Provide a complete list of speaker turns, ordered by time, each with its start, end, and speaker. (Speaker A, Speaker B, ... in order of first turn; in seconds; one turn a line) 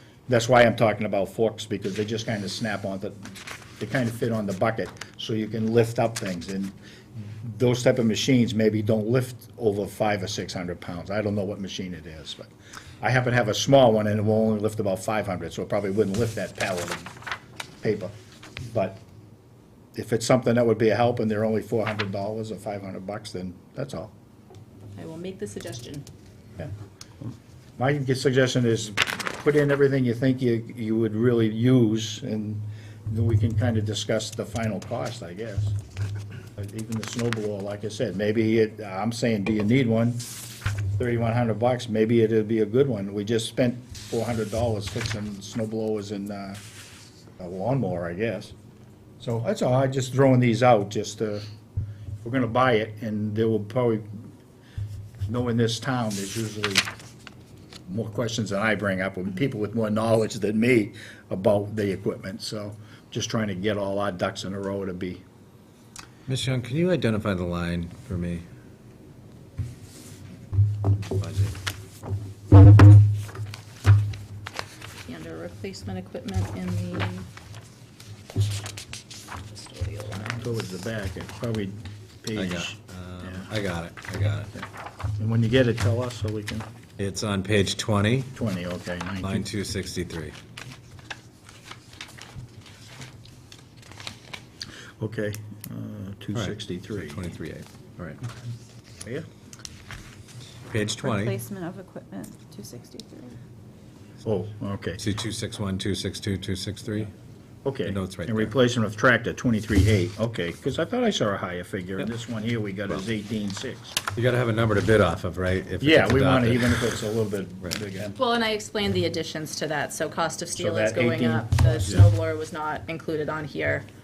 Speaker A: 0.3-12.5
Speaker A: 13.0-17.1
Speaker A: 17.8-19.0
Speaker A: 19.9-24.1
Speaker B: 24.9-26.1
Speaker A: 27.8-35.8
Speaker A: 36.5-40.2
Speaker A: 41.0-46.6
Speaker A: 47.4-48.5
Speaker A: 49.2-51.4
Speaker A: 52.2-54.0
Speaker A: 55.3-56.9
Speaker A: 57.9-65.2
Speaker C: 66.3-68.4
Speaker C: 71.1-71.5
Speaker B: 75.1-77.2
Speaker B: 79.5-80.7
Speaker A: 80.1-83.5
Speaker C: 82.3-84.5
Speaker A: 85.2-86.7
Speaker C: 87.0-88.3
Speaker A: 88.3-89.5
Speaker C: 89.2-90.3
Speaker A: 95.0-97.2
Speaker C: 96.3-98.2
Speaker C: 100.7-101.3
Speaker D: 101.0-103.3
Speaker A: 104.2-105.0
Speaker C: 105.0-107.1
Speaker A: 107.6-114.0
Speaker C: 107.8-108.5
Speaker C: 114.1-117.0
Speaker A: 115.8-118.1
Speaker B: 118.2-123.9
Speaker A: 120.5-122.0